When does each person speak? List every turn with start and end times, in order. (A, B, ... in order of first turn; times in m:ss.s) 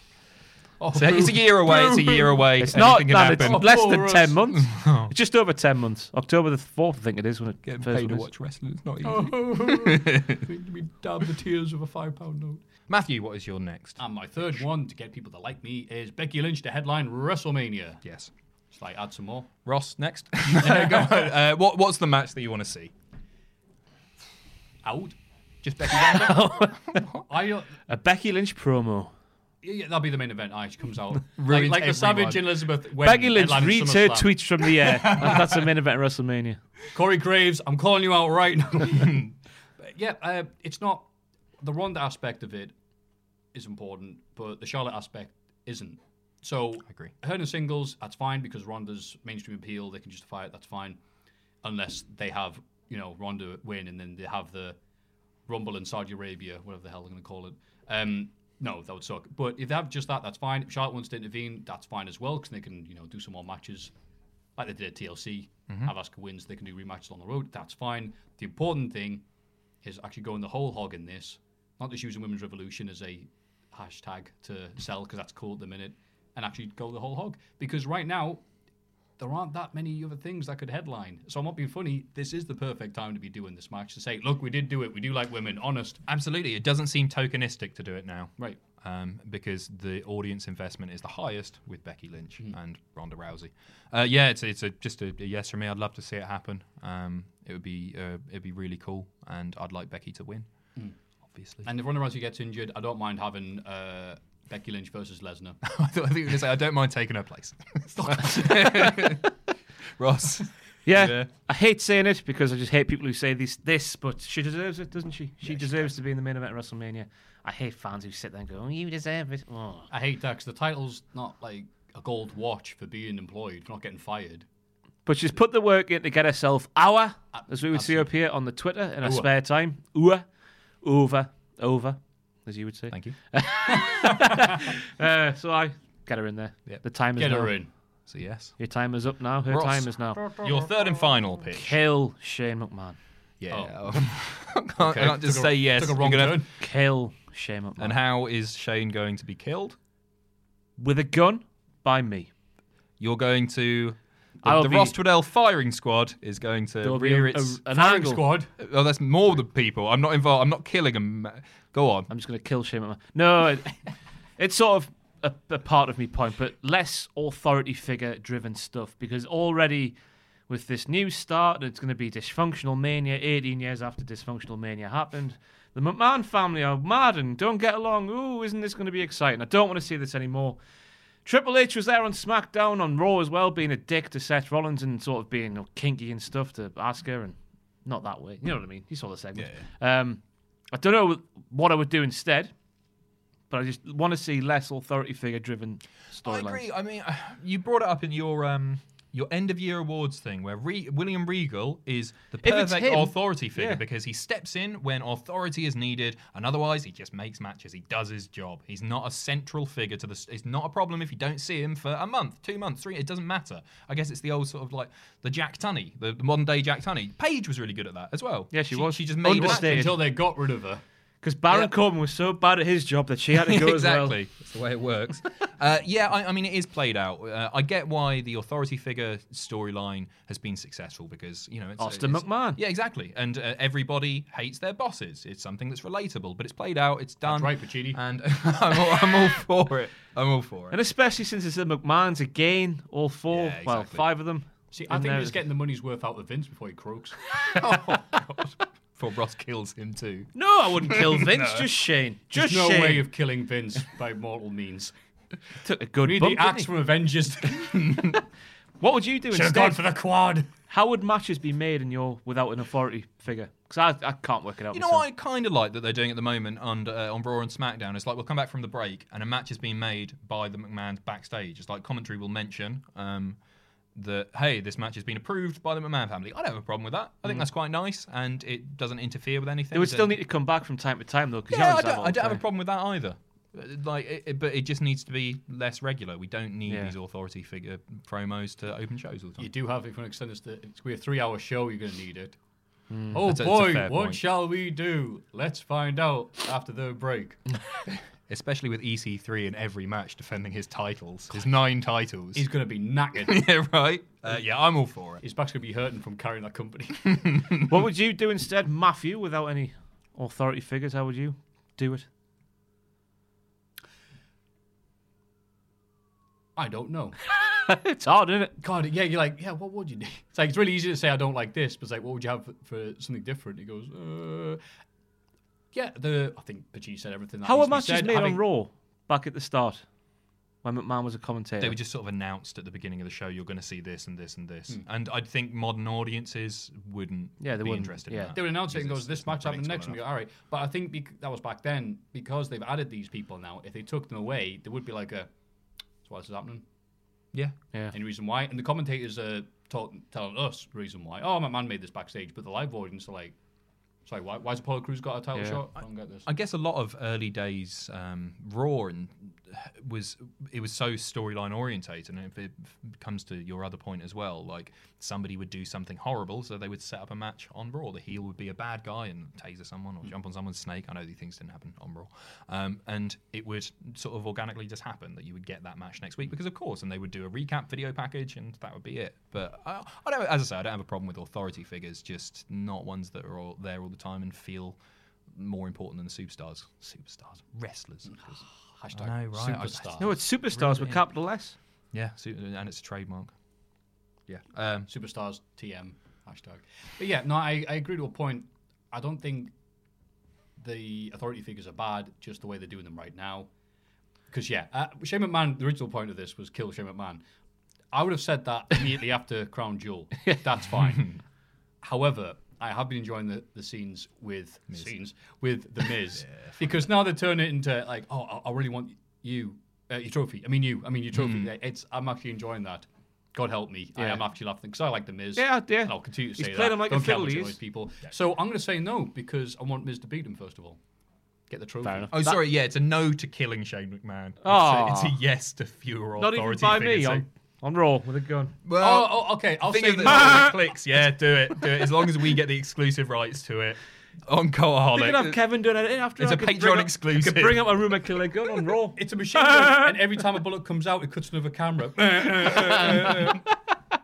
0:00.8-0:04.4 A
0:00.9-0:05.1 B
0:02.6-0:08.3 C
0:07.6-0:10.4 B
0:09.0-0:12.6 A
0:12.9-0:14.6 B
0:14.0-0:18.0 A
0:18.0-0:18.3 B
0:18.7-0:19.5 A
0:19.6-0:22.9 B
0:20.4-0:21.3 A
0:24.8-0:25.2 A
0:25.6-0:27.2 B
0:25.9-0:27.0 C
0:27.3-0:27.7 A
0:27.9-0:29.1 C
0:29.6-0:34.4 A
0:31.3-0:32.4 B
0:33.0-0:36.6 C
0:34.9-0:35.6 B
0:36.9-0:39.3 A
0:39.8-0:41.1 A
0:41.6-0:42.7 A
0:43.5-0:51.0 A
0:51.6-0:54.8 A
0:55.5-1:03.9 A
1:04.6-1:09.2 A
1:09.8-1:18.4 A
1:19.2-1:26.0 A
1:26.1-1:40.5 B
1:41.3-1:41.7 B
1:41.6-1:45.6 A
1:45.6-1:49.3 B
1:48.5-1:49.1 C
1:50.0-1:51.3 B
1:50.8-1:59.9 C
1:55.4-1:55.9 B
1:59.9-2:04.4 A
2:05.0-2:10.2 C
2:07.3-2:08.1 A
2:09.0-2:09.3 A
2:10.8-2:17.6 C
2:17.2-2:17.7 A
2:18.1-2:18.6 B
2:18.6-2:20.2 C
2:19.5-2:21.8 B
2:20.2-2:21.1 A
2:21.5-2:23.0 C
2:23.4-2:26.4 B
2:23.5-2:24.0 A
2:24.8-2:26.5 A
2:26.6-2:28.0 C
2:27.8-2:29.8 B
2:30.8-2:32.3 C
2:33.0-2:37.6 B
2:34.4-2:34.9 C
2:36.8-2:38.2 C
2:37.7-2:38.5 A
2:38.6-2:42.1 B
2:42.1-2:43.8 C
2:44.4-2:50.0 C
2:50.5-3:00.6 C
3:01.2-3:10.2 C
3:09.4-3:09.6 B
3:10.7-3:12.5 C
3:13.5-3:16.6 C
3:16.2-3:40.0 B
3:22.4-3:23.8 C
3:38.5-3:40.0 C
3:39.2-3:40.8 A
3:41.2-3:44.2 C
3:43.3-4:00.8 B
3:51.8-3:52.6 C
3:57.2-3:58.0 A
4:00.7-4:05.4 C
4:03.3-4:04.0 B
4:04.7-4:07.2 A
4:07.5-4:11.7 B
4:10.3-4:13.1 C
4:12.3-4:14.9 A
4:15.6-4:16.8 C
4:16.0-4:17.8 A
4:17.6-4:18.2 B
4:18.8-4:19.8 C
4:19.3-4:20.5 A
4:20.6-4:25.0 C
4:24.7-4:33.4 B
4:33.9-4:40.2 B
4:39.7-4:42.4 C
4:41.5-4:49.5 B
4:46.7-4:46.9 C
4:49.4-4:52.4 A
4:52.9-4:53.2 C
4:53.1-4:57.4 A
4:53.1-4:54.2 B
4:58.3-5:02.5 B
5:02.3-5:03.5 A
5:03.2-5:05.2 B
5:05.2-5:07.0 A
5:07.1-5:07.7 B
5:07.7-5:12.0 C
5:16.6-5:17.2 A
5:17.4-5:18.5 C
5:18.6-5:24.6 A
5:25.7-5:28.4 A
5:27.4-5:29.8 C
5:30.6-5:31.8 C
5:31.6-5:40.0 B
5:37.4-5:38.4 C
5:38.3-5:45.3 A
5:46.0-5:46.6 A
5:47.9-5:53.4 A
5:54.0-5:56.2 A
5:55.4-5:55.6 C
5:56.2-6:24.8 B
6:25.3-6:28.4 B
6:28.0-6:30.1 A
6:28.9-6:31.0 B
6:30.0-6:31.5 C
6:31.9-6:33.3 B
6:34.3-6:34.9 B
6:34.9-6:39.5 A
6:40.6-6:43.5 A
6:44.3-6:47.2 A
6:47.9-6:51.2 A
6:51.8-7:10.8 A
6:56.2-6:56.6 B
7:01.1-7:01.5 B
7:04.0-7:04.2 C
7:05.4-7:07.6 C
7:11.5-7:12.1 A
7:11.8-7:12.4 C
7:12.1-7:17.2 B
7:14.4-7:15.2 C
7:16.2-7:18.6 C
7:18.6-7:25.4 B
7:18.7-7:20.6 A
7:20.1-7:20.5 C
7:24.9-7:30.0 C
7:26.2-7:27.7 B
7:29.0-7:33.3 A
7:32.4-7:33.4 B
7:32.5-7:33.4 C